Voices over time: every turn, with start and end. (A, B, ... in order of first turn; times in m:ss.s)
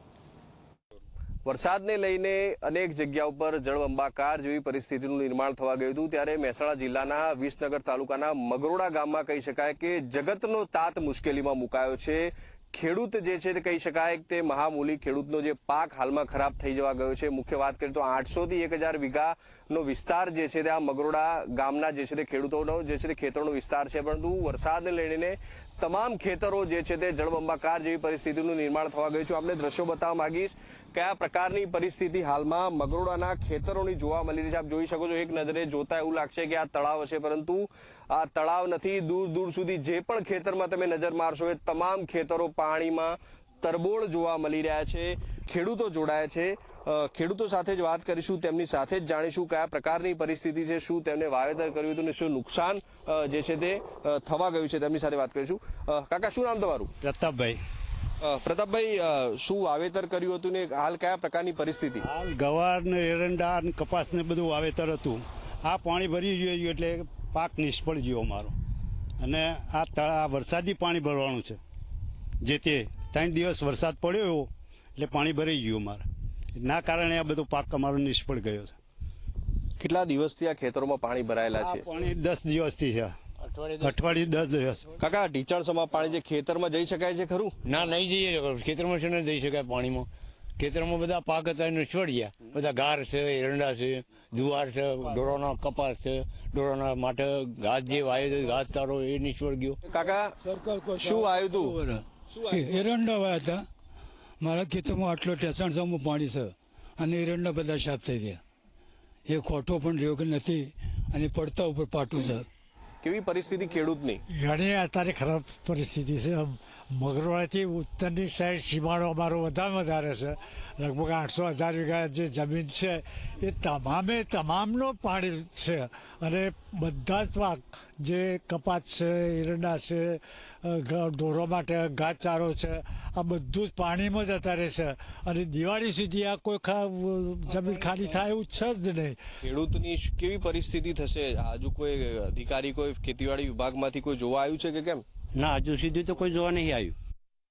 0:01.4-0:56.9 A
0:57.0-0:57.6 B
0:58.2-1:02.1 A
1:02.0-1:08.5 B
1:09.2-1:11.6 B
1:12.4-1:16.0 B
1:16.6-1:18.8 B
1:19.8-1:21.8 A
1:21.6-1:23.1 B
1:23.4-1:23.9 C
1:23.8-1:24.9 B
1:25.0-1:27.6 A
1:27.6-1:39.8 C
1:39.9-1:40.3 A
1:40.4-1:43.6 D
1:41.0-1:41.8 A
1:44.4-1:48.4 D
1:49.3-1:52.5 D
1:53.0-1:54.2 A
1:54.3-2:19.2 E
2:19.4-2:25.0 A
2:25.3-2:27.0 C